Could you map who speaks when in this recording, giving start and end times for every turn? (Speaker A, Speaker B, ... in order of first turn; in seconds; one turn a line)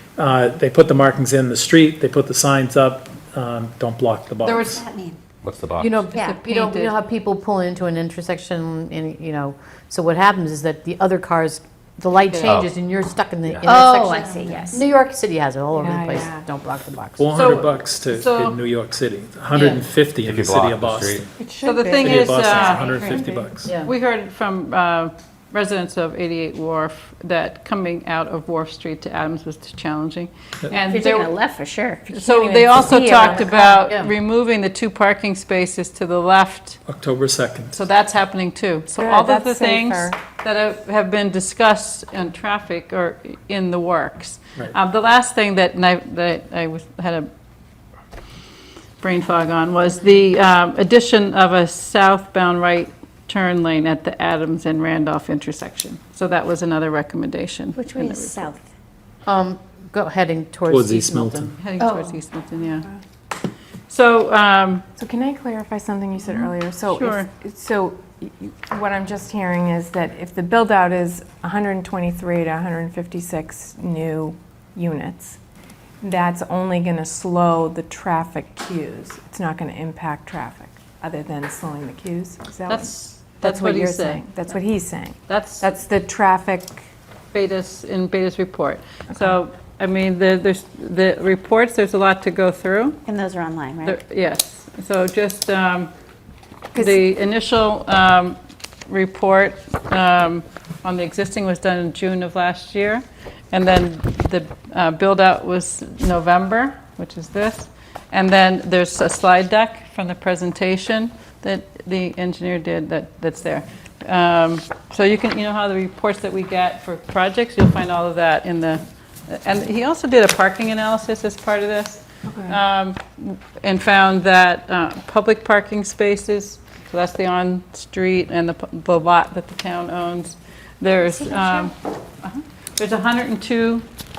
Speaker A: 0.2-4.8
Speaker B: 4.5-5.2
Speaker C: 5.4-6.1
Speaker D: 5.8-17.3
Speaker E: 6.1-6.9
Speaker E: 12.3-12.6
Speaker C: 12.4-12.7
Speaker C: 13.4-13.7
Speaker B: 13.6-14.8
Speaker F: 15.7-16.4
Speaker A: 17.2-21.3
Speaker E: 17.3-18.6
Speaker B: 19.5-19.8
Speaker C: 20.2-21.3
Speaker F: 21.4-22.5
Speaker E: 21.6-23.2
Speaker A: 22.0-23.7
Speaker B: 22.8-23.1
Speaker F: 23.2-23.6
Speaker D: 23.6-23.9
Speaker E: 23.8-31.3
Speaker B: 30.7-32.1
Speaker E: 32.1-36.8
Speaker F: 32.1-33.2
Speaker B: 32.8-33.8
Speaker D: 33.3-34.1
Speaker A: 36.9-37.8
Speaker E: 37.7-47.3
Speaker F: 38.9-40.2
Speaker E: 49.0-58.5
Speaker B: 57.8-58.6
Speaker D: 59.2-61.5
Speaker A: 60.7-61.5
Speaker E: 61.6-62.9
Speaker B: 61.8-62.0
Speaker F: 62.0-63.0
Speaker E: 63.9-64.8
Speaker F: 65.0-75.4
Speaker E: 66.2-67.3
Speaker F: 76.0-86.8
Speaker E: 82.7-84.5
Speaker E: 85.3-85.7
Speaker E: 87.3-93.0
Speaker B: 93.0-94.0
Speaker E: 93.8-95.9
Speaker F: 96.7-97.0
Speaker E: 96.7-133.8
Speaker F: 122.2-122.6
Speaker B: 131.0-131.7